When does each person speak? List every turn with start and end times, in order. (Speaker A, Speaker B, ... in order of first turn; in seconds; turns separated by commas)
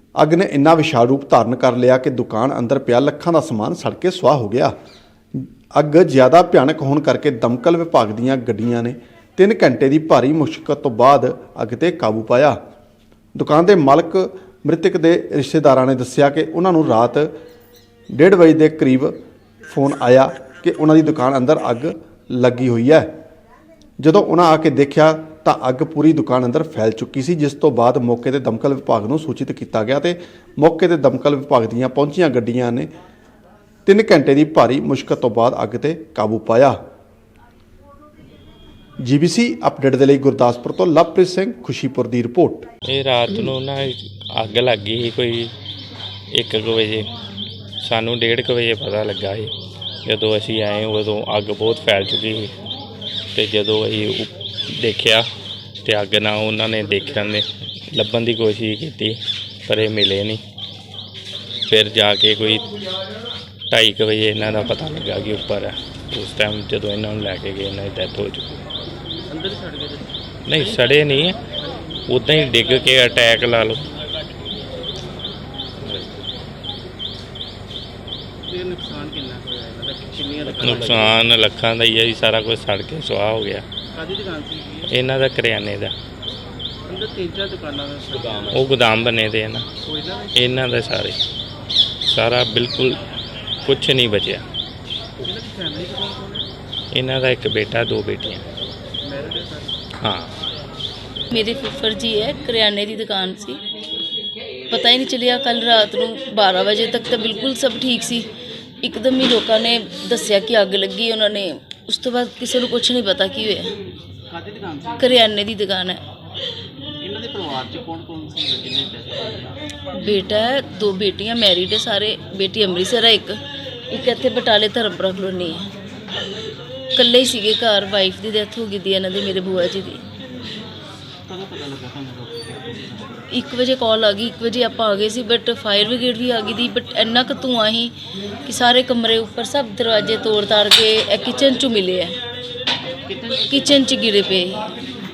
Speaker A: 0.2-4.7, Speaker A: 5.3-12.6, Speaker A: 13.4-17.3, Speaker A: 18.1-19.1, Speaker A: 19.7-23.1, Speaker A: 24.0-32.9, Speaker A: 33.9-36.8, Speaker A: 39.0-42.7, Speaker B: 42.9-45.5, Speaker B: 46.3-47.1, Speaker B: 47.8-49.5, Speaker B: 50.0-52.5, Speaker B: 53.3-55.3, Speaker B: 55.8-60.4, Speaker C: 56.8-57.4, Speaker B: 61.7-62.6, Speaker B: 63.7-68.6, Speaker C: 69.3-70.2, Speaker B: 70.5-71.4, Speaker C: 71.6-72.0, Speaker B: 72.1-73.9, Speaker B: 75.8-76.1, Speaker C: 78.5-81.2, Speaker B: 80.6-83.6, Speaker C: 83.9-84.9, Speaker B: 84.9-85.9, Speaker C: 86.8-88.7, Speaker B: 88.5-89.7, Speaker C: 89.8-90.7, Speaker B: 90.3-91.2, Speaker B: 92.0-92.9, Speaker B: 93.7-94.4, Speaker C: 95.2-96.5, Speaker B: 96.9-98.5, Speaker C: 99.0-99.8, Speaker B: 100.0-100.3, Speaker D: 101.3-103.6, Speaker D: 104.7-108.3, Speaker D: 108.8-113.7, Speaker C: 114.3-115.2, Speaker D: 115.0-116.0, Speaker C: 117.0-119.6, Speaker D: 120.0-123.4, Speaker D: 123.9-125.7, Speaker D: 127.0-130.0, Speaker C: 131.3-133.2, Speaker D: 133.3-137.9, Speaker D: 138.4-142.2, Speaker C: 143.1-143.8, Speaker D: 143.5-144.7